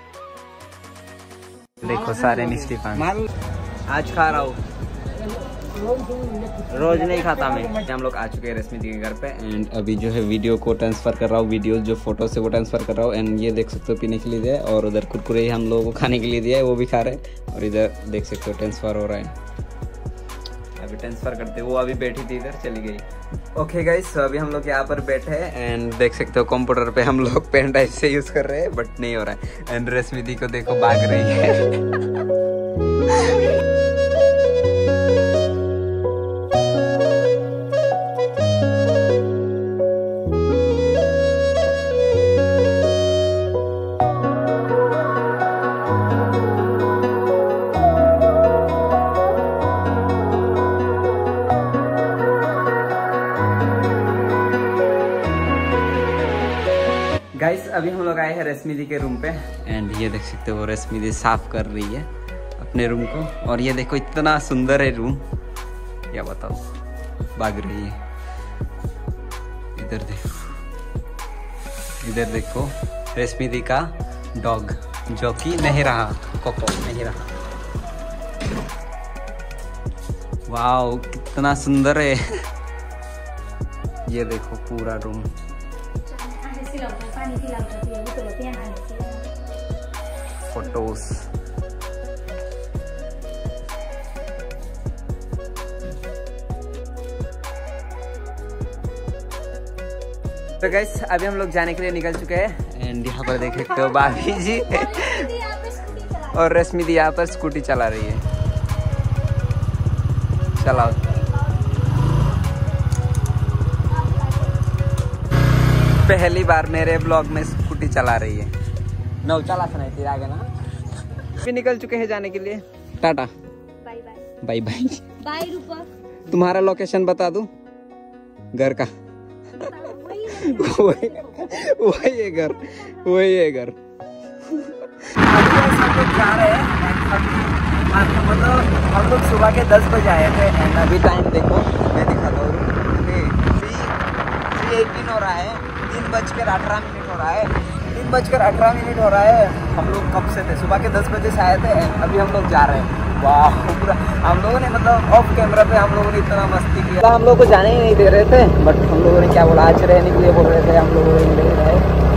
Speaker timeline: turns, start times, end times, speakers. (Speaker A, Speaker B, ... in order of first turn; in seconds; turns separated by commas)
Speaker A: 1.8-3.1, Speaker A: 3.9-4.6, Speaker A: 6.5-19.4, Speaker A: 20.8-32.2, Speaker A: 33.0-33.6, Speaker A: 57.4-65.2, Speaker A: 66.1-66.6, Speaker A: 67.3-68.0, Speaker A: 69.8-70.5, Speaker A: 72.0-77.3, Speaker A: 80.5-82.2, Speaker A: 84.1-85.3, Speaker B: 86.1-89.3, Speaker A: 90.4-91.3, Speaker A: 100.6-108.2, Speaker B: 105.0-106.3, Speaker A: 110.6-111.3, Speaker B: 113.9-114.6, Speaker A: 116.0-118.5, Speaker A: 119.2-120.5, Speaker A: 121.2-123.3, Speaker B: 123.8-124.3, Speaker A: 124.4-125.2, Speaker B: 125.3-125.9, Speaker A: 126.2-127.5, Speaker A: 128.5-128.9, Speaker A: 129.5-133.8, Speaker B: 129.8-130.8, Speaker A: 134.4-144.0, Speaker A: 144.5-161.9